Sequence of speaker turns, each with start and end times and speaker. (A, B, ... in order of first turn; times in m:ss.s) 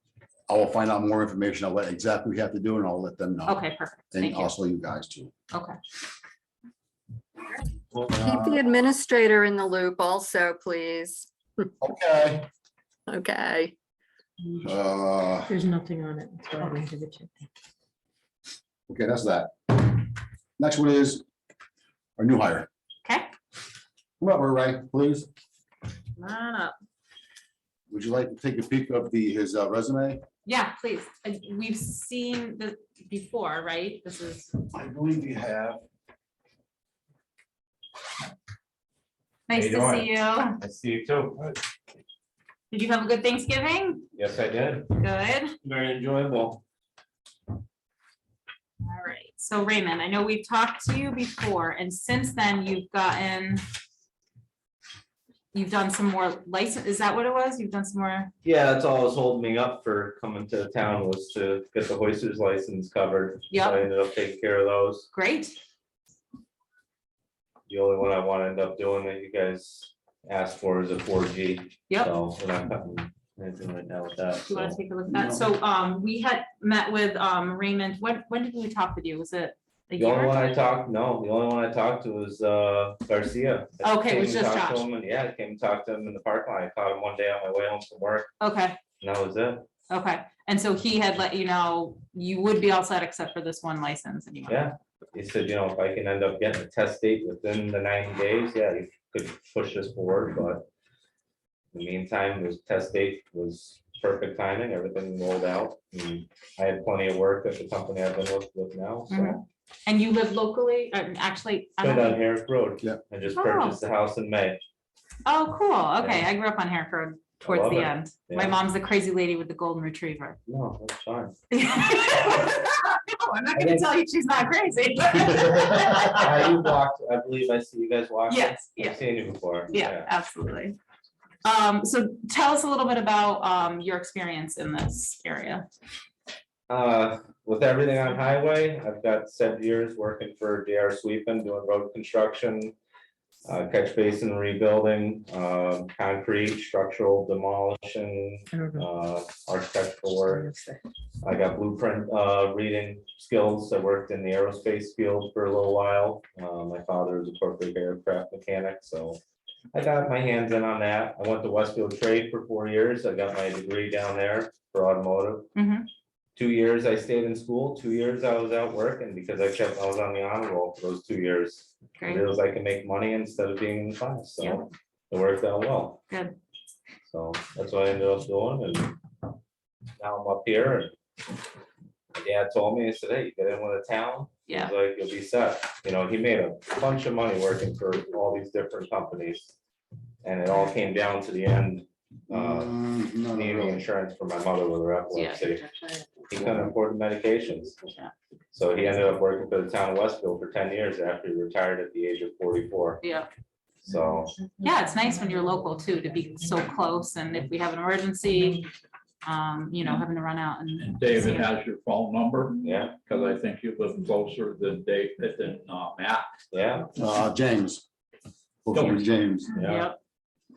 0:00.5-0:03.6 A
0:03.4-0:04.5 B
0:04.1-0:05.3 A
0:05.5-0:05.8 B
0:07.9-0:08.6 A
0:08.4-0:11.2 C
0:11.8-0:12.5 A
0:13.1-0:13.7 C
0:14.6-0:15.5 A
0:15.5-0:17.5 D
0:18.9-0:20.0 A
0:20.6-0:21.2 A
0:22.2-0:22.7 A
0:24.2-0:25.3 A
0:26.2-0:26.7 B
0:27.9-0:30.2 A
0:30.4-0:34.5 B
0:34.7-0:35.8 A
0:39.5-0:40.6 B
0:39.5-0:41.4 E
0:42.7-0:44.0 B
0:44.1-0:44.9 E
0:44.9-0:45.6 B
0:45.6-0:46.6 E
0:48.8-0:53.6 B
0:55.5-0:58.3 B
0:58.4-1:05.1 E
1:03.5-1:03.8 B
1:05.1-1:05.5 B
1:07.7-1:14.8 E
1:14.5-1:20.4 B
1:15.1-1:15.4 A
1:20.0-1:28.3 E
1:23.8-1:24.8 B
1:28.4-1:28.8 B
1:29.0-1:29.6 E
1:29.9-1:34.7 B
1:34.5-1:40.6 E
1:41.7-1:49.4 E
1:49.1-1:52.2 B
1:51.8-1:54.6 E
1:53.3-1:53.8 B
1:55.2-2:00.4 B
1:56.0-1:56.3 E
1:57.4-1:58.6 E
2:00.5-2:01.4 E
2:01.5-2:06.5 B
2:03.6-2:03.8 E
2:06.0-2:10.1 E
2:08.3-2:09.0 B
2:09.7-2:10.8 B
2:11.4-2:15.7 B
2:16.7-2:22.7 E
2:23.4-2:30.5 E
2:28.5-2:28.9 D
2:30.2-2:30.8 D
2:31.2-2:39.2 E
2:39.7-2:45.5 E
2:45.5-2:45.9 B
2:46.4-2:56.0 E
2:52.0-2:52.2 B
2:56.1-2:56.4 B
2:57.1-2:59.0 E
3:00.0-3:00.9 E
3:02.1-3:09.5 E
3:04.5-3:04.7 B
3:10.2-3:12.7 E
3:12.3-3:13.8 A
3:13.3-3:15.7 E
3:15.1-3:15.5 B
3:16.3-3:17.8 E
3:17.9-3:18.1 B
3:18.5-3:23.0 E
3:23.0-3:23.3 B
3:23.8-3:24.5 E
3:24.6-3:28.7 B
3:29.2-3:31.5 B
3:30.8-3:36.3 F
3:32.6-3:33.0 E
3:36.5-3:36.9 E
3:37.0-3:37.8 A
3:38.6-3:39.5 A
3:38.7-3:39.0 F
3:39.5-3:39.9 E
3:39.5-3:40.0 B